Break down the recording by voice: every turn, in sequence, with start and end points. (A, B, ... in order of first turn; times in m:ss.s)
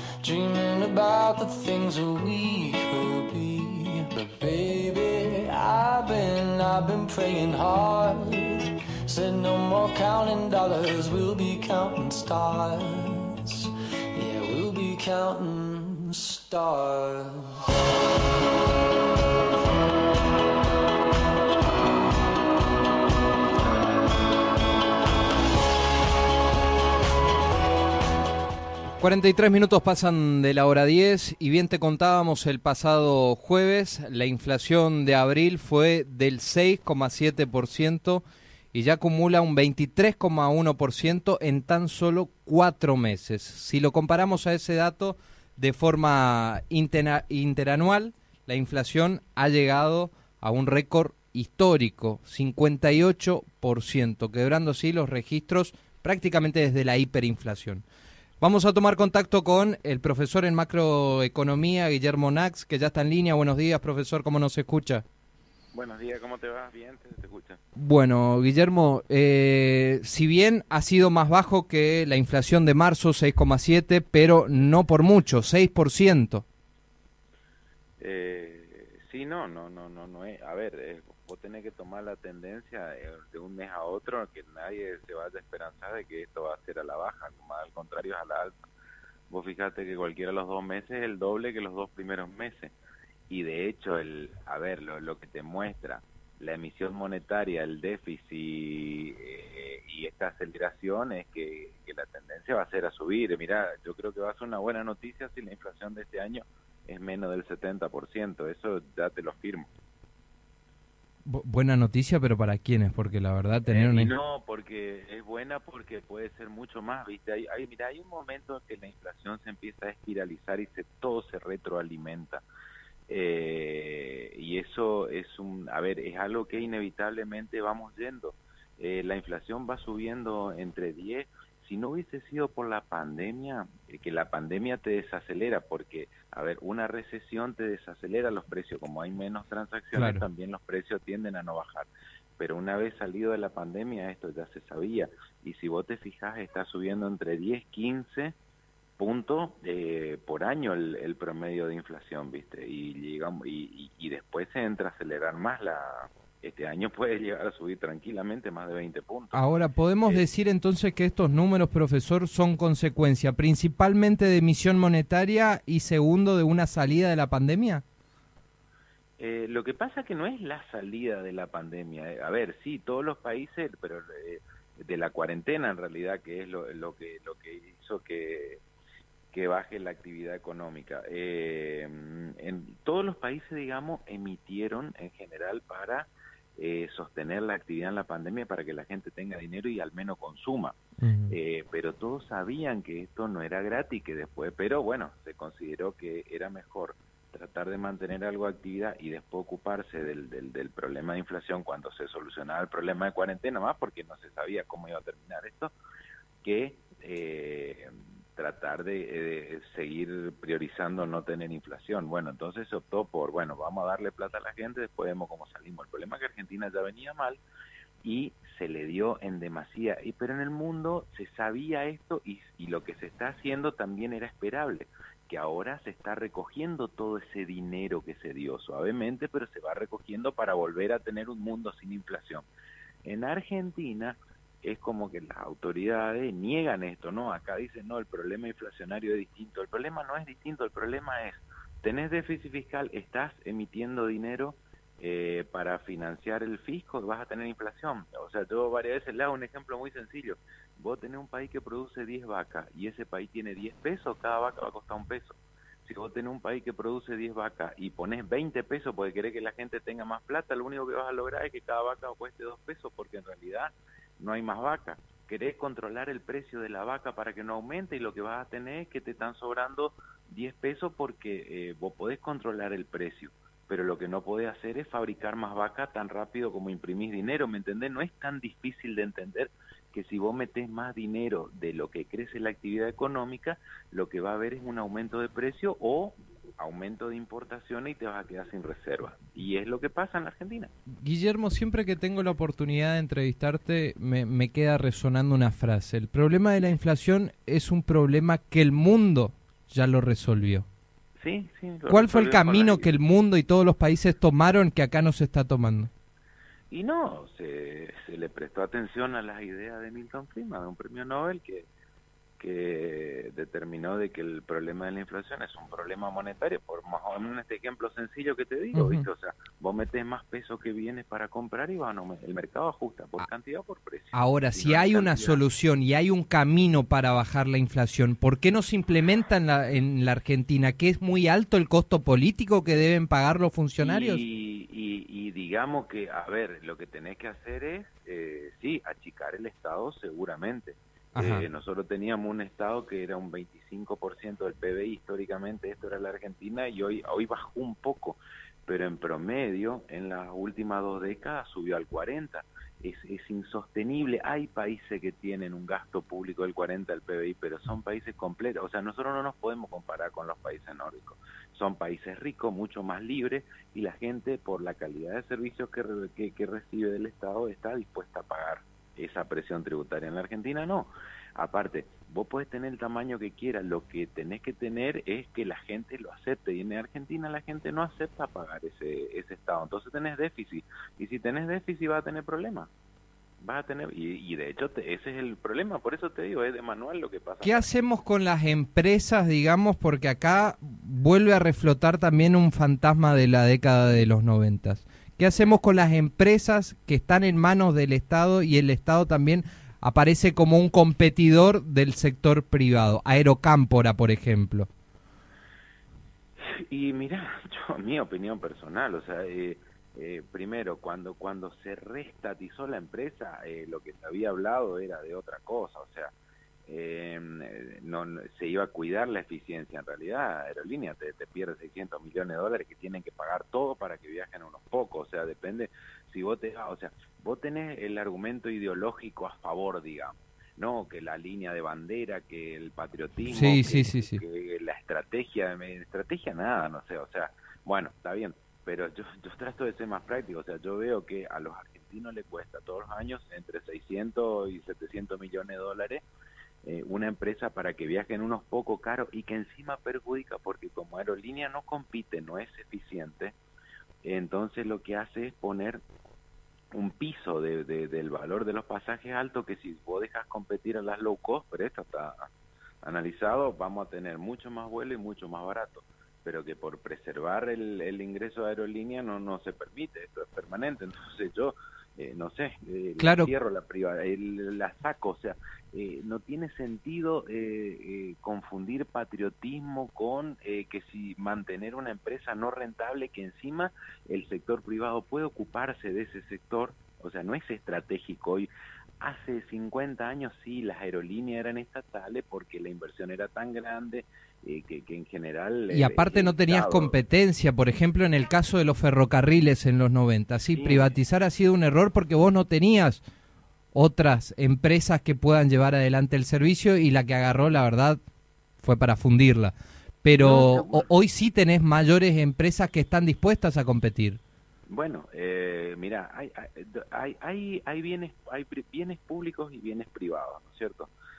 0:00.2-0:17.6 A
0:29.0-0:57.8 B
0:58.4-1:05.0 B
1:05.7-1:07.6 C
1:07.8-1:16.4 B
1:18.0-1:28.6 C
1:29.3-1:32.7 C
1:33.3-1:49.7 C
1:51.2-1:54.1 B
1:53.6-2:02.4 C
2:03.1-2:28.3 C
2:19.9-2:20.2 B
2:29.0-2:39.4 C
2:39.3-2:47.8 B
2:49.2-2:58.6 C
2:59.3-3:10.8 C
3:11.0-3:11.4 B
3:11.3-3:25.7 C
3:26.4-3:37.4 C
3:38.0-3:52.5 C
3:53.0-4:50.7 C
4:51.0-5:00.7 B
5:01.2-5:02.9 C
5:01.9-5:05.9 B
5:06.7-5:11.7 C
5:12.4-5:25.4 C
5:18.7-5:19.1 B
5:24.1-5:34.2 B
5:33.8-6:22.7 C
5:41.1-5:41.5 B
6:23.4-6:27.7 C
6:27.4-6:44.7 B
6:46.4-6:56.1 C
6:56.7-7:26.0 C
7:13.3-7:14.2 B
7:26.6-7:33.3 C
7:34.0-7:35.8 C
7:36.7-7:42.3 C
7:42.8-8:08.5 C
7:53.0-7:53.3 B
8:09.0-8:17.0 C
8:15.7-8:23.0 B
8:20.5-8:20.9 C
8:23.7-8:28.0 B
8:28.6-8:34.2 B
8:30.2-8:30.9 C
8:34.7-8:40.9 C